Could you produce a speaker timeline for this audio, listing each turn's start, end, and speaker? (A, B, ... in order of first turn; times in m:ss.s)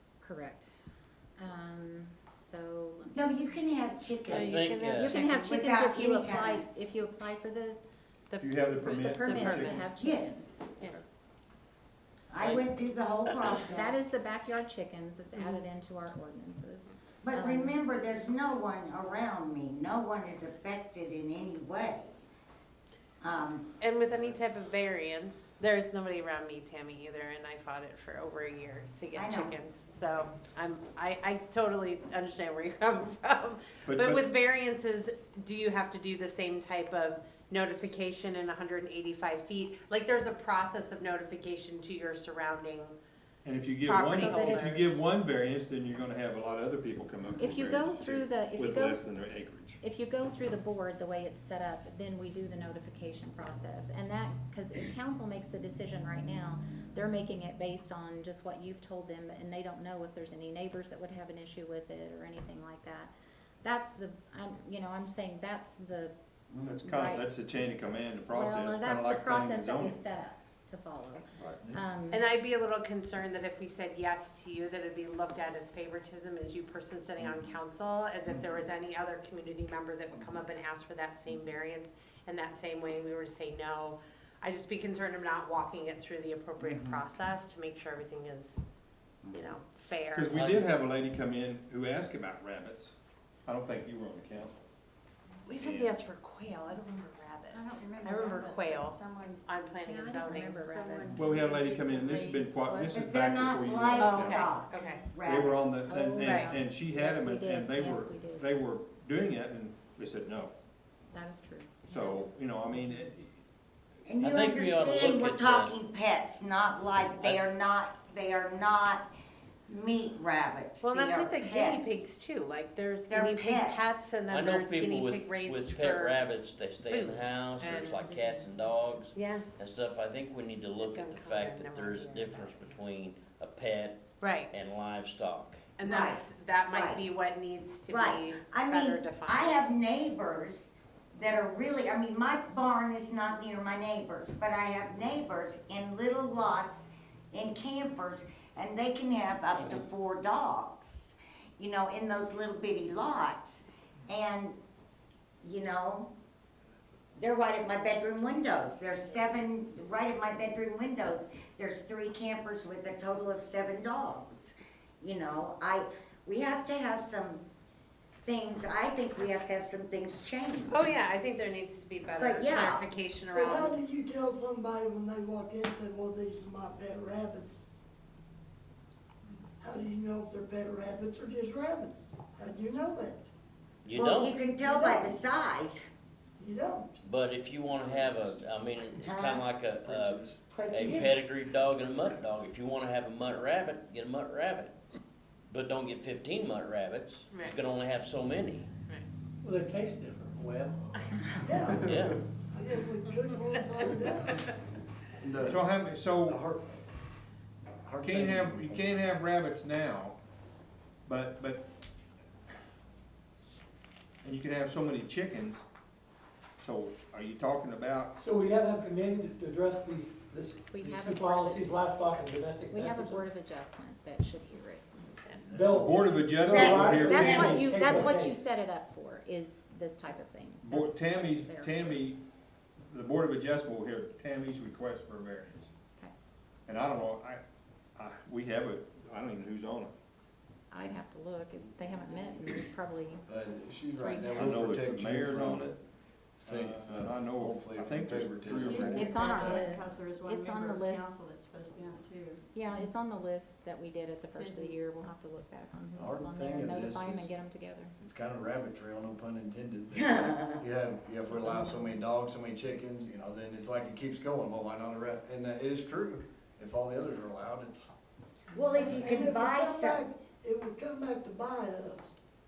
0:00.2-0:00.7 A
0:01.4-0:03.5 A
0:03.1-0:06.6 B
0:04.3-0:05.2 C
0:04.3-0:05.3 D
0:04.9-0:07.8 A
0:08.3-0:09.8 D
0:08.3-0:10.7 A
0:08.4-0:09.9 E
0:10.0-0:10.4 B
0:12.3-0:14.0 B
0:12.4-0:12.6 C
0:13.6-0:17.8 A
0:17.2-0:22.1 B
0:23.2-0:23.7 B
0:23.8-0:42.9 D
0:24.1-0:24.4 F
0:29.1-0:29.6 B
0:33.8-0:34.3 E
0:43.4-0:49.8 E
0:43.8-0:45.0 D
0:44.0-0:44.8 A
0:47.4-0:49.1 A
0:49.8-1:03.1 A
1:03.6-1:07.3 A
1:06.6-1:10.0 E
1:08.3-1:12.2 A
1:11.4-1:11.8 F
1:12.1-1:28.6 D
1:26.6-1:27.0 B
1:29.3-1:30.3 D
1:30.1-1:34.6 E
1:30.3-1:30.7 C
1:35.4-1:40.7 D
1:35.6-1:36.0 E
1:37.5-1:39.5 G
1:39.8-1:41.3 A
1:40.6-1:42.0 G
1:41.1-1:44.5 E
1:41.8-1:43.0 A
1:42.9-1:45.9 B
1:44.0-1:45.0 D
1:45.2-1:50.5 E
1:45.8-1:48.5 A
1:46.3-1:46.5 D
1:51.1-1:52.9 A
1:51.9-1:53.3 E
1:54.0-1:59.1 B
1:54.2-1:55.7 C
1:57.2-1:57.4 C
1:59.7-2:02.1 B
2:00.8-2:06.2 D
2:03.1-2:04.0 B
2:04.3-2:15.6 C
2:06.8-2:08.3 D
2:09.1-2:09.4 D
2:10.8-2:12.6 D
2:14.2-2:14.5 D
2:15.8-2:19.7 D
2:15.8-2:17.0 B
2:17.9-2:34.6 B
2:35.4-2:36.1 B
2:37.2-2:47.4 B
2:48.2-2:50.9 B
2:50.7-2:53.8 D
2:52.2-2:52.8 B
2:53.3-2:57.6 H
2:59.6-3:03.2 H
3:03.8-3:04.4 C
3:03.9-3:05.8 B
3:04.6-3:05.2 H
3:06.4-3:07.0 H
3:07.0-3:14.7 C
3:07.7-3:08.4 F
3:09.0-3:09.5 B
3:09.8-3:10.4 F
3:10.4-3:11.2 B
3:15.5-3:18.7 C
3:17.3-3:17.6 D
3:19.4-3:20.8 I
3:21.4-3:22.0 H
3:21.8-3:22.2 C
3:22.5-3:24.3 H
3:23.1-3:24.5 D
3:25.2-3:25.6 F
3:25.4-3:26.4 E
3:26.2-3:26.7 F
3:27.8-3:28.8 F
3:28.0-3:30.2 E
3:31.0-3:31.6 E
3:34.2-3:35.6 E
3:36.6-3:38.1 E
3:38.2-3:43.2 I
3:40.7-3:41.7 A
3:42.7-3:45.2 A
3:45.2-3:45.6 D
3:45.3-3:45.7 F
3:45.5-3:48.4 I
3:45.7-3:47.7 E
3:45.9-3:52.0 A
3:46.4-3:47.7 B
3:50.6-3:52.2 E
3:52.9-3:55.7 E
3:56.7-3:57.4 E
3:58.0-3:59.9 E
4:00.7-4:03.2 A
4:03.3-4:05.7 F
4:04.0-4:04.5 A
4:04.4-4:05.8 E
4:06.4-4:09.2 E
4:06.4-4:09.7 F
4:08.6-4:12.4 G
4:08.9-4:11.1 A
4:12.5-4:17.9 A
4:14.4-4:14.8 G
4:16.0-4:17.3 F
4:18.0-4:27.9 F
4:19.9-4:20.6 B
4:28.5-4:30.0 B
4:28.7-4:32.1 H